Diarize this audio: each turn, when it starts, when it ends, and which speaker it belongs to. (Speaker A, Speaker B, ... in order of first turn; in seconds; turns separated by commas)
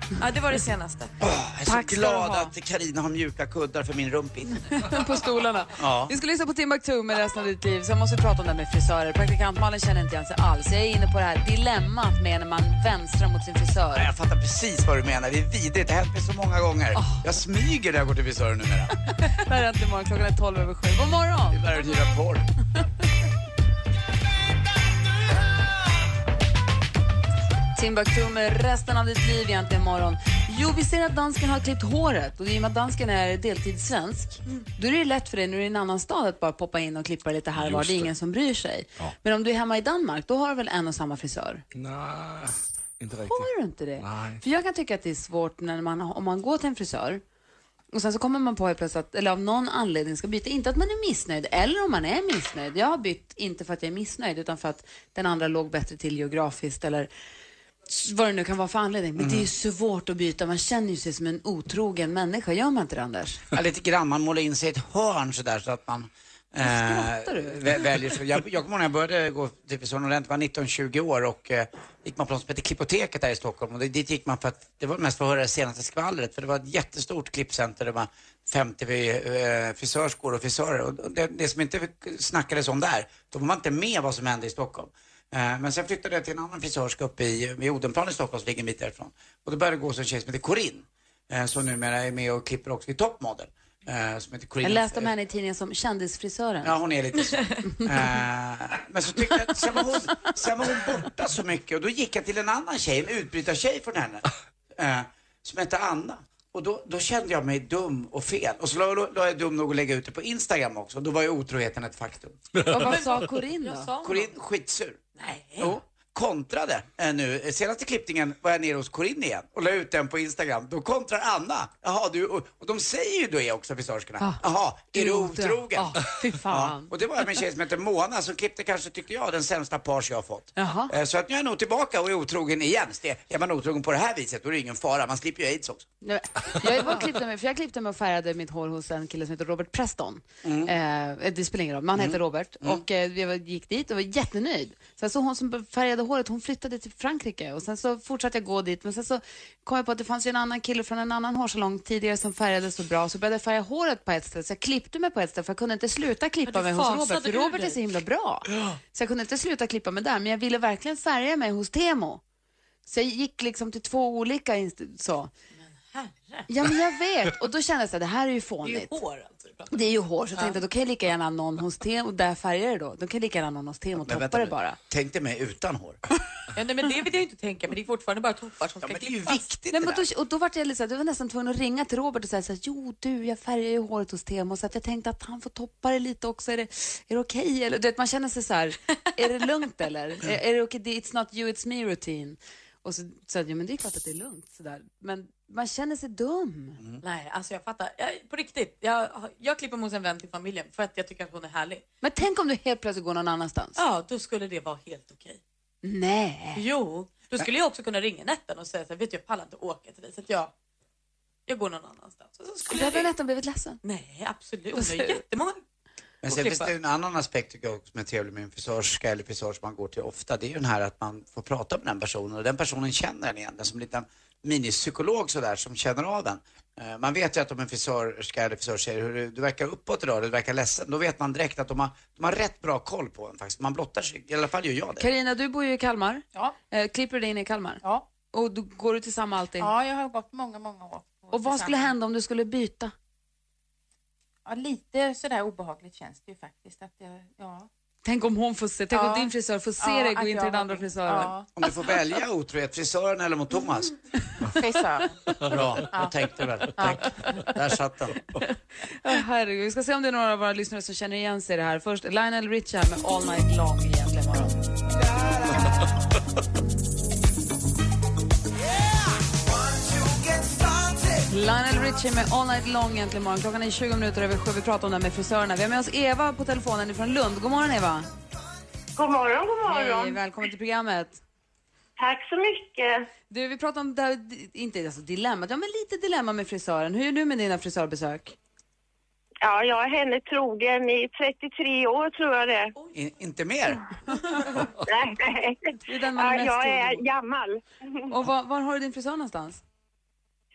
Speaker A: 0.2-1.1, Speaker B: 1.2-4.7, Speaker C: 1.6-2.5, Speaker C: 4.7-14.1, Speaker B: 5.8-6.1, Speaker B: 13.9-18.9, Speaker C: 16.9-17.2, Speaker C: 19.3-21.7, Speaker B: 21.5-22.4, Speaker C: 27.7-41.6, Speaker D: 37.5-38.1, Speaker D: 41.7-44.4, Speaker C: 43.2-47.2, Speaker C: 47.9-57.1, Speaker C: 57.9-63.4, Speaker B: 59.2-59.5, Speaker B: 63.5-95.1, Speaker C: 66.6-67.8, Speaker C: 94.6-96.8, Speaker B: 96.6-104.2, Speaker B: 104.8-112.4, Speaker C: 112.7-113.9, Speaker A: 112.8-114.3, Speaker B: 114.0-115.0, Speaker A: 115.2-115.8, Speaker B: 115.6-126.0, Speaker C: 124.2-126.9, Speaker B: 126.5-135.9, Speaker C: 130.6-130.9, Speaker C: 136.0-162.2, Speaker B: 140.4-140.7, Speaker B: 141.9-142.8, Speaker A: 156.5-157.8, Speaker C: 162.8-165.3, Speaker A: 165.6-166.5, Speaker C: 166.5-168.9, Speaker A: 168.6-169.7, Speaker C: 169.7-174.8, Speaker A: 170.3-170.6, Speaker B: 174.0-176.0, Speaker A: 176.5-179.4, Speaker B: 178.8-180.1, Speaker C: 179.7-196.8, Speaker A: 197.0-201.8, Speaker C: 202.0-203.8, Speaker A: 203.8-205.4, Speaker C: 205.8-206.6, Speaker A: 206.5-210.5, Speaker A: 211.5-213.1, Speaker C: 212.7-213.8, Speaker A: 213.8-215.6, Speaker C: 214.8-215.2, Speaker B: 216.2-235.1, Speaker A: 216.2-216.7, Speaker C: 235.0-239.7, Speaker E: 239.6-241.9, Speaker C: 241.3-242.9, Speaker E: 244.4-247.7, Speaker C: 248.0-251.3, Speaker E: 248.9-251.5, Speaker B: 251.6-253.9, Speaker E: 254.5-256.2, Speaker B: 255.4-258.2, Speaker E: 256.7-257.5, Speaker C: 258.9-264.6, Speaker C: 271.3-278.1, Speaker F: 279.0-280.2, Speaker C: 279.7-281.2, Speaker F: 282.0-283.1, Speaker C: 283.3-288.4, Speaker F: 289.4-292.7, Speaker B: 292.9-293.8, Speaker F: 294.9-297.6, Speaker C: 295.9-297.0, Speaker C: 298.1-299.6